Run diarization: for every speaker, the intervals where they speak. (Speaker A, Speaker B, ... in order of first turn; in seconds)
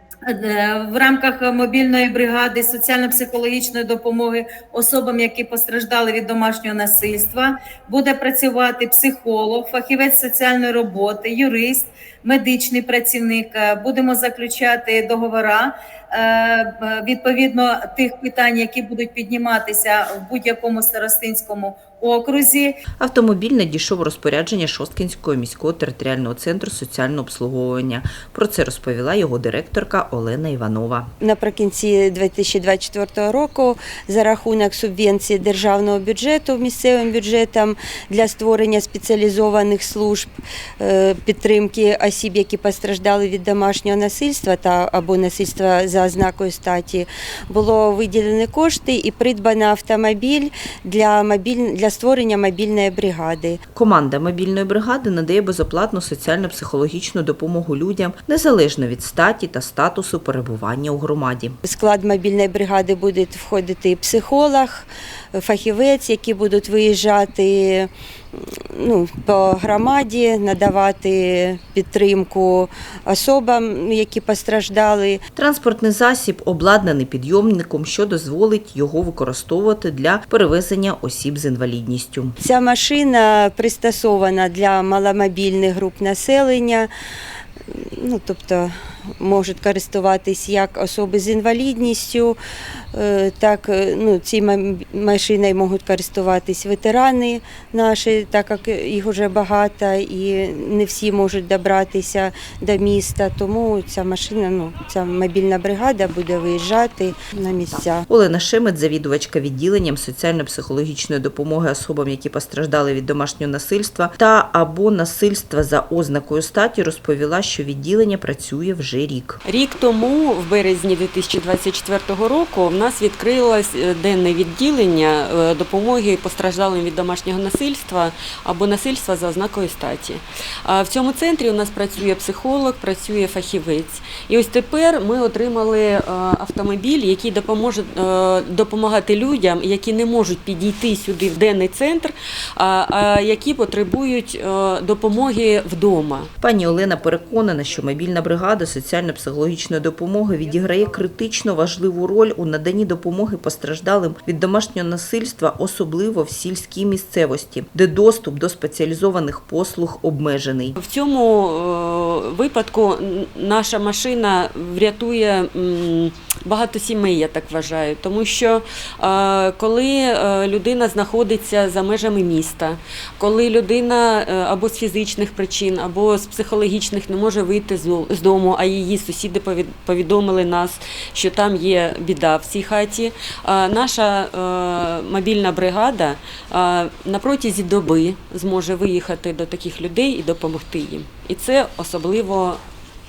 Speaker A: 0.3-22.8
Speaker B: 23.0-31.1, 53.7-61.6, 75.3-82.3, 108.1-119.4, 146.4-160.8
Speaker C: 31.2-53.6, 61.6-75.2, 82.4-86.9, 87.7-92.4, 92.9-108.0
Speaker D: 119.4-146.3, 160.8-192.6